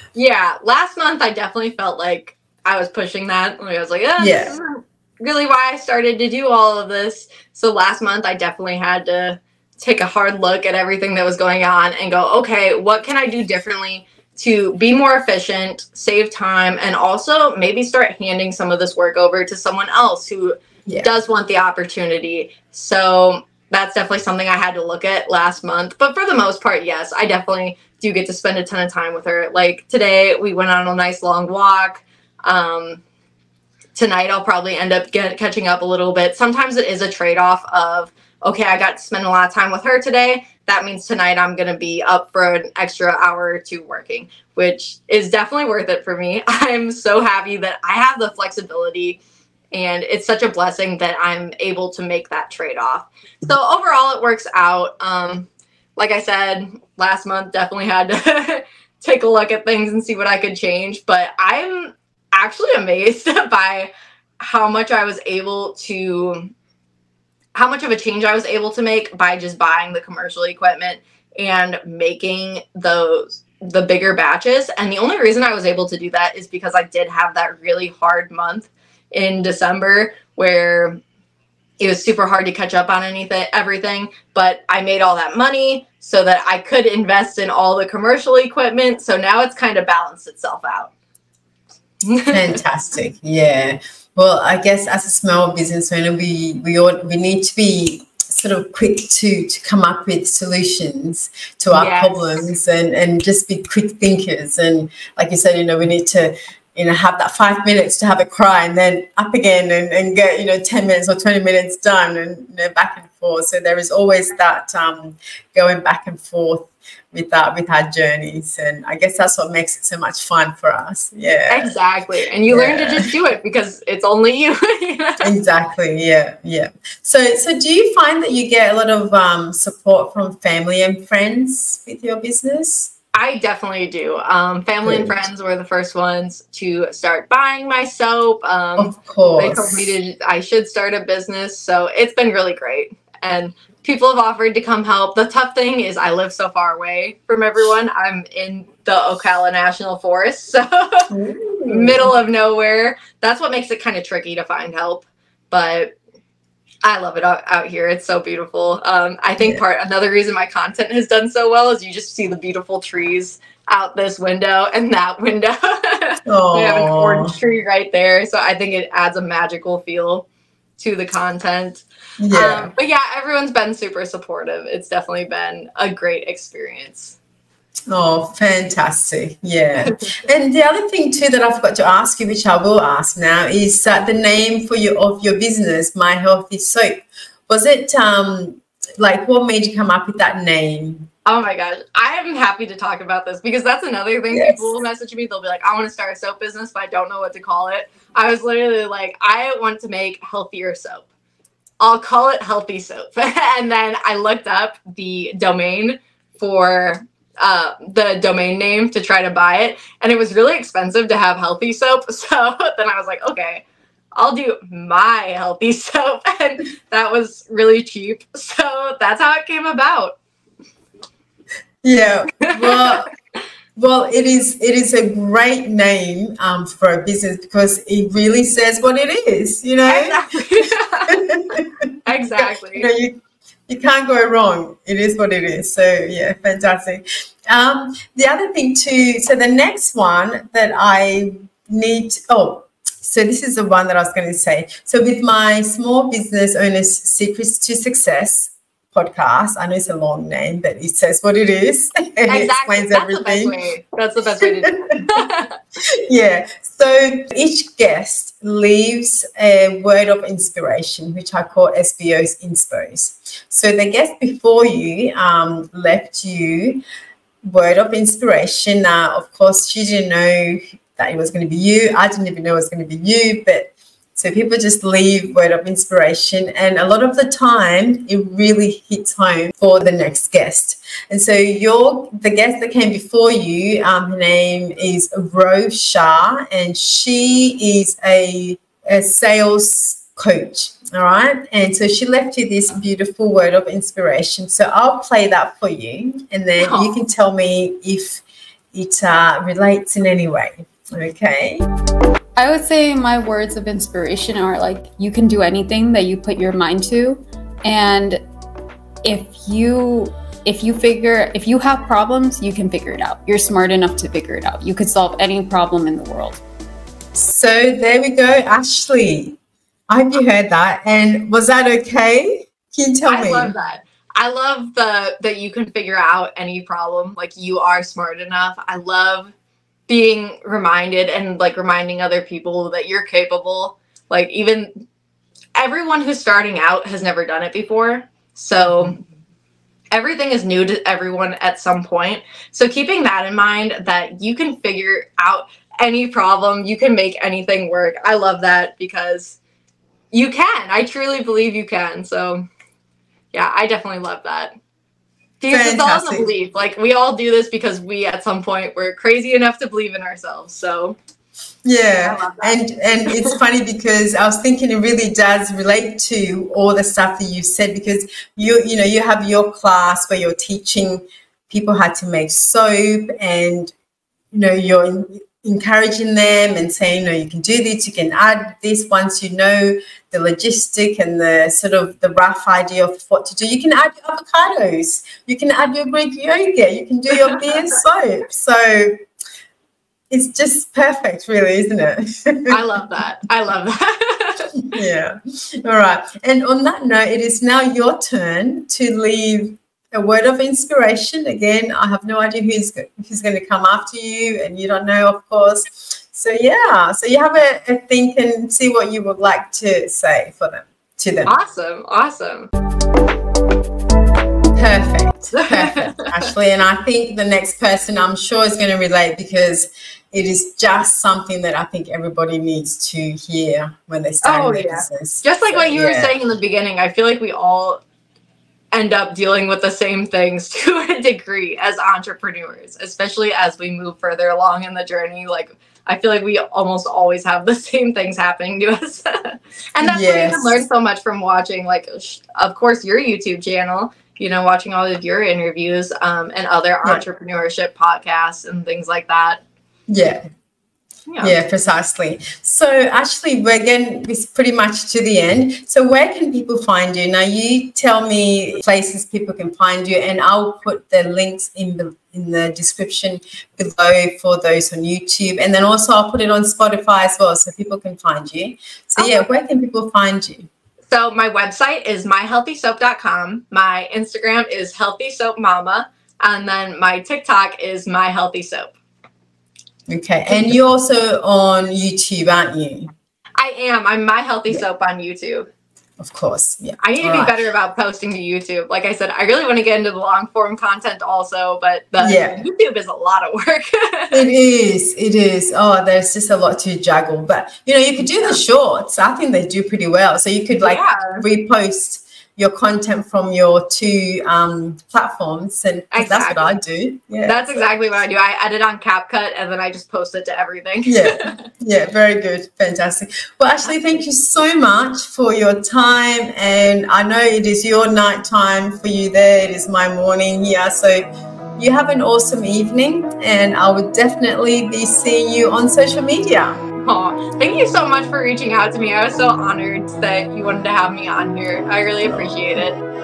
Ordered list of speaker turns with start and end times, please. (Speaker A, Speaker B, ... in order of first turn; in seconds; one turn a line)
Speaker A: 0.1-33.0
Speaker B: 4.2-4.5
Speaker B: 20.9-21.1
Speaker A: 34.0-49.2
Speaker A: 49.7-66.5
Speaker A: 67.5-81.0
Speaker A: 81.8-90.9
Speaker A: 92.0-92.6
Speaker B: 92.3-121.7
Speaker A: 101.7-102.3
Speaker A: 121.5-125.3
Speaker B: 122.5-123.1
Speaker B: 125.2-132.9
Speaker A: 133.1-151.1
Speaker B: 134.8-135.2
Speaker B: 138.8-139.9
Speaker B: 151.1-152.1
Speaker A: 151.7-155.9
Speaker A: 156.8-170.3
Speaker B: 166.3-167.3
Speaker A: 170.8-177.2
Speaker B: 172.2-172.7
Speaker B: 177.9-191.1
Speaker A: 179.8-180.1
Speaker A: 191.2-201.1
Speaker B: 194.3-194.8
Speaker A: 201.8-220.2
Speaker B: 221.8-223.1
Speaker A: 222.6-223.0
Speaker B: 223.8-230.2
Speaker A: 229.9-231.2
Speaker B: 231.1-253.5
Speaker A: 232.0-232.9
Speaker A: 252.3-255.5
Speaker B: 254.4-255.2
Speaker B: 255.9-266.8
Speaker B: 267.4-301.6
Speaker A: 296.6-297.0
Speaker C: 302.4-308.2
Speaker C: 309.0-316.4
Speaker B: 317.1-319.4
Speaker B: 319.9-323.5
Speaker A: 323.1-329.3
Speaker A: 329.9-334.7
Speaker A: 335.6-339.0
Speaker A: 339.9-349.4
Speaker A: 350.1-352.4
Speaker A: 353.3-354.5
Speaker A: 355.4-361.0
Speaker B: 355.5-356.3
Speaker B: 361.6-373.7
Speaker A: 362.0-363.4
Speaker B: 374.3-389.0
Speaker B: 390.1-392.6
Speaker A: 392.5-394.6
Speaker B: 394.6-411.3
Speaker A: 411.2-412.5
Speaker B: 414.5-426.1
Speaker A: 415.3-416.3
Speaker A: 424.2-427.8
Speaker A: 428.7-449.4
Speaker B: 439.8-440.6
Speaker B: 449.9-450.2
Speaker A: 451.1-451.4
Speaker B: 451.2-470.5
Speaker A: 469.0-469.3
Speaker A: 470.9-478.8
Speaker B: 479.9-482.9
Speaker A: 480.3-480.5
Speaker A: 483.4-485.5
Speaker B: 486.0-487.3
Speaker A: 486.8-494.2
Speaker B: 492.0-492.4
Speaker B: 494.1-507.4
Speaker A: 498.1-498.4
Speaker A: 500.6-501.2
Speaker A: 505.9-506.5
Speaker A: 507.2-511.5
Speaker B: 510.8-526.6
Speaker A: 526.8-532.8
Speaker B: 532.0-532.4